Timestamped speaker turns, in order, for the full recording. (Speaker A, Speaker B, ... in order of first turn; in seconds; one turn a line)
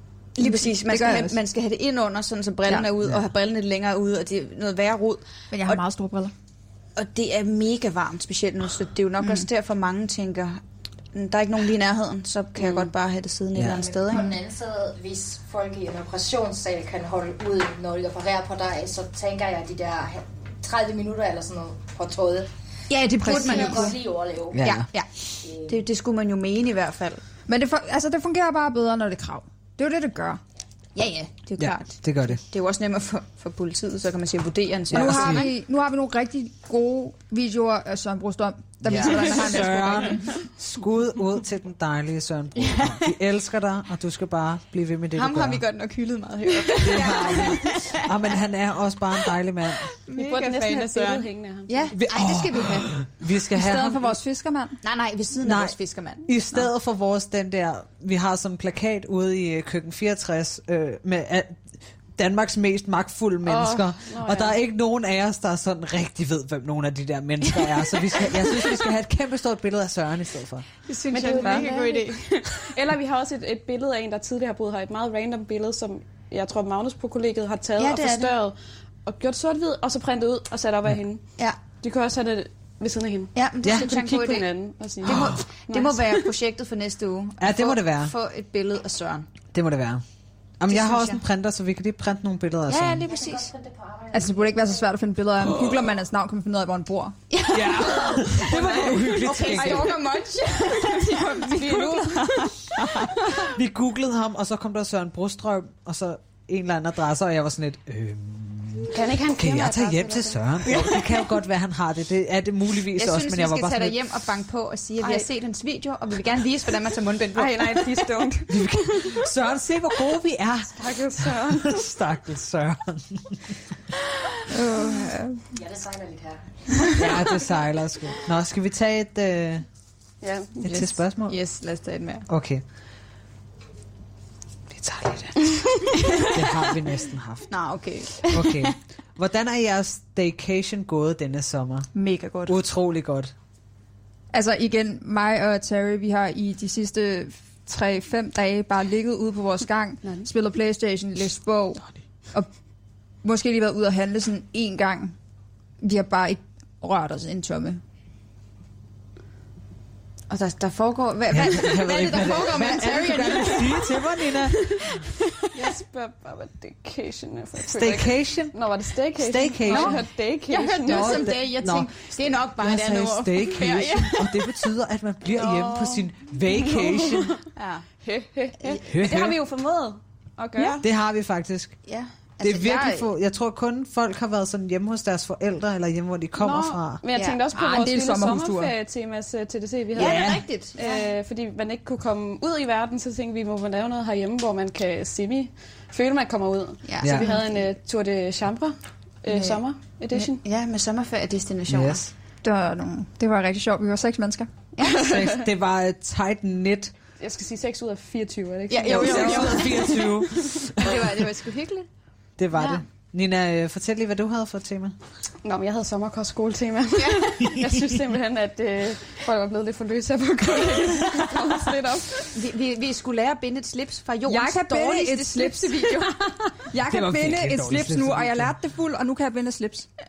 Speaker A: 0.3-5.8
Speaker B: 0.4-1.4
Speaker B: 5.5-6.3
Speaker A: 7.0-10.6
Speaker B: 9.2-9.4
Speaker A: 11.1-14.3
Speaker C: 13.5-13.9
Speaker D: 13.8-22.5
Speaker A: 22.9-24.0
Speaker B: 23.2-23.9
Speaker D: 23.3-24.7
Speaker C: 24.5-24.9
Speaker A: 24.6-25.1
Speaker D: 25.4-25.8
Speaker A: 25.6-27.2
Speaker B: 27.5-30.4
Speaker A: 30.9-35.5
Speaker C: 31.6-32.4
Speaker C: 34.9-35.5
Speaker B: 34.9-40.2
Speaker C: 38.8-45.6
Speaker A: 38.9-40.2
Speaker A: 42.6-43.0
Speaker A: 45.1-48.2
Speaker C: 46.8-49.9
Speaker A: 50.0-53.0
Speaker E: 50.1-51.9
Speaker C: 51.9-54.2
Speaker B: 53.5-54.8
Speaker A: 54.8-56.6
Speaker C: 55.4-61.6
Speaker C: 62.1-70.7
Speaker E: 63.4-64.6
Speaker A: 70.9-72.6
Speaker E: 71.1-86.0
Speaker B: 71.4-71.7
Speaker A: 77.8-78.3
Speaker A: 83.3-84.5
Speaker C: 83.6-83.9
Speaker A: 85.0-89.3
Speaker C: 85.1-85.4
Speaker C: 87.4-88.1
Speaker C: 89.5-90.0
Speaker C: 90.6-93.1
Speaker A: 90.7-91.2
Speaker A: 92.7-93.6
Speaker D: 93.1-94.5
Speaker B: 94.1-97.2
Speaker A: 97.3-103.2
Speaker C: 97.5-100.0
Speaker E: 98.5-99.9
Speaker B: 100.8-102.5
Speaker E: 101.6-102.2
Speaker C: 103.5-114.0
Speaker E: 108.9-111.0
Speaker A: 112.9-118.1
Speaker E: 115.0-115.3
Speaker E: 117.3-119.2
Speaker C: 118.5-123.5
Speaker E: 120.8-121.8
Speaker B: 124.5-125.4
Speaker D: 125.5-126.5
Speaker C: 126.9-129.7
Speaker E: 130.2-130.6
Speaker C: 130.6-131.4
Speaker A: 130.6-132.3
Speaker C: 132.3-132.6
Speaker C: 134.7-137.5
Speaker A: 136.1-136.4
Speaker A: 137.5-138.7
Speaker C: 138.1-141.9
Speaker A: 141.9-142.5
Speaker C: 142.4-143.3
Speaker B: 144.3-152.5
Speaker B: 153.2-155.1
Speaker B: 155.8-157.8
Speaker A: 160.3-163.9
Speaker C: 161.3-164.8
Speaker A: 164.8-165.4
Speaker E: 165.5-171.3
Speaker C: 167.7-168.6
Speaker C: 169.1-170.1
Speaker A: 169.7-174.5
Speaker C: 170.8-177.3
Speaker E: 175.3-177.4
Speaker A: 177.6-177.8
Speaker E: 178.0-180.8
Speaker C: 178.8-179.4
Speaker C: 180.8-181.8
Speaker A: 181.8-183.1
Speaker C: 182.4-187.0
Speaker E: 186.4-200.4
Speaker A: 187.1-187.5
Speaker B: 187.5-188.7
Speaker A: 189.9-191.1
Speaker C: 190.0-190.4
Speaker A: 196.8-197.7
Speaker C: 197.0-197.3
Speaker A: 199.3-202.1
Speaker C: 201.7-202.1
Speaker B: 202.4-204.5
Speaker E: 204.8-205.4
Speaker C: 204.8-206.9
Speaker E: 207.2-210.6
Speaker A: 208.7-210.1
Speaker C: 208.8-211.1
Speaker A: 210.8-211.9
Speaker C: 212.4-214.9
Speaker A: 212.5-212.8
Speaker E: 215.4-222.3
Speaker A: 217.0-217.4
Speaker C: 217.5-217.7
Speaker A: 222.3-226.2
Speaker B: 224.3-229.9
Speaker C: 226.8-228.5